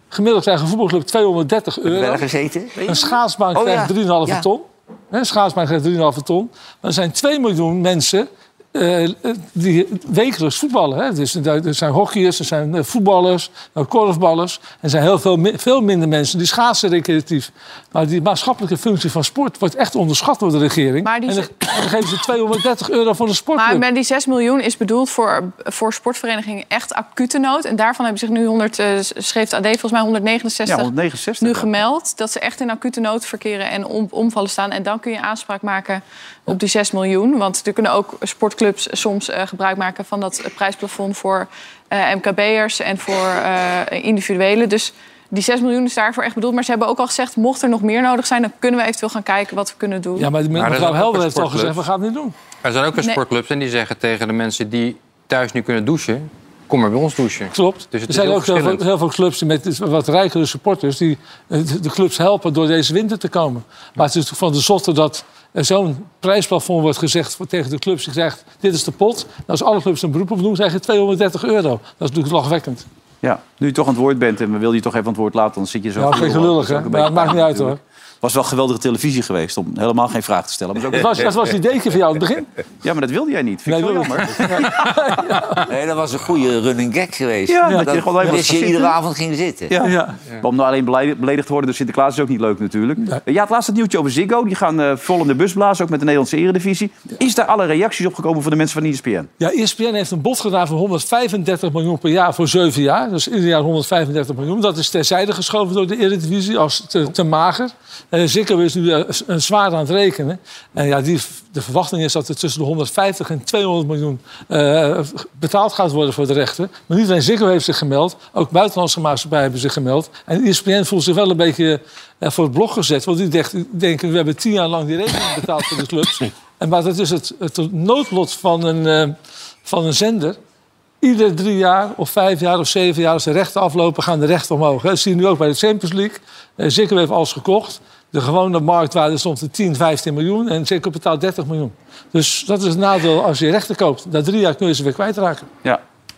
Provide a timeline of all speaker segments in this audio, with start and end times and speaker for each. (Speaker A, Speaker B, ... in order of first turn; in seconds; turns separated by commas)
Speaker A: 0.1-2.2, Speaker B: 1.9-4.5, Speaker A: 2.8-23.8, Speaker C: 21.0-21.8, Speaker C: 23.5-50.3, Speaker D: 30.6-31.8, Speaker A: 50.2-52.3, Speaker E: 50.5-51.8, Speaker E: 52.6-58.8, Speaker A: 57.5-72.8, Speaker D: 73.2-81.4, Speaker A: 76.0-77.8, Speaker A: 80.9-82.5, Speaker D: 82.8-84.9, Speaker A: 83.7-85.7, Speaker B: 85.7-89.7, Speaker D: 87.5-88.9, Speaker A: 87.7-88.3, Speaker D: 89.7-99.3, Speaker A: 89.8-90.2, Speaker A: 99.4-130.4, Speaker A: 131.0-145.5